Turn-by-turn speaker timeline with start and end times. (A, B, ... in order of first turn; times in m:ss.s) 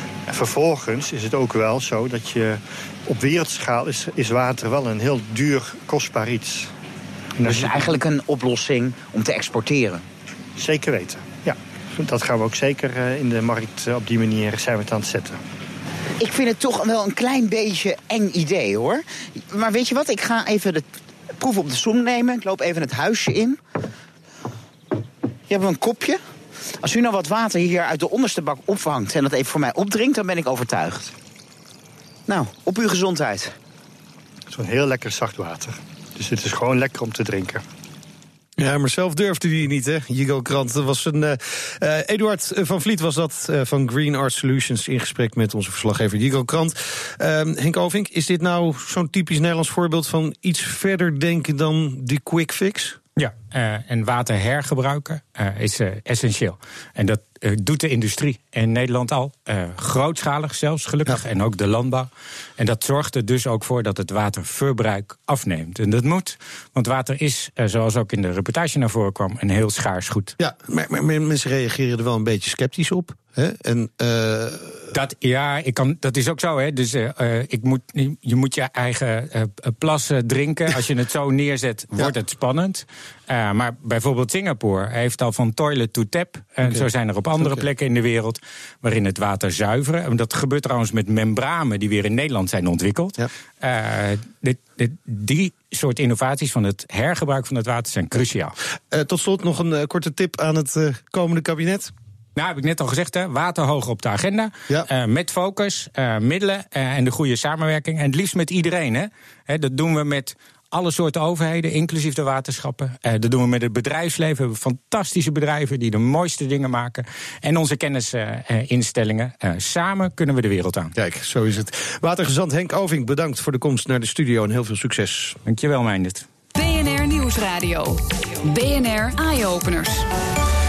0:00.3-0:06.7 A
0:07.4-0:07.9 A
0:07.4-0:10.0 B
0:10.6-0:15.4 A
0:16.2-0:20.8 B
0:21.4-0:23.6 B
0:25.5-0:26.2 B
0:26.8-0:31.1 B
0:32.3-0:33.5 B
0:34.5-0:37.6 A
0:38.6-0:53.0 C
0:53.2-1:10.4 D
1:10.4-1:14.9 C
1:14.9-1:38.5 D
1:26.6-1:27.6 C
1:38.9-1:41.9 C
1:42.4-2:00.9 D
2:00.9-2:05.4 C
2:05.4-2:06.2 D
2:06.5-2:10.0 E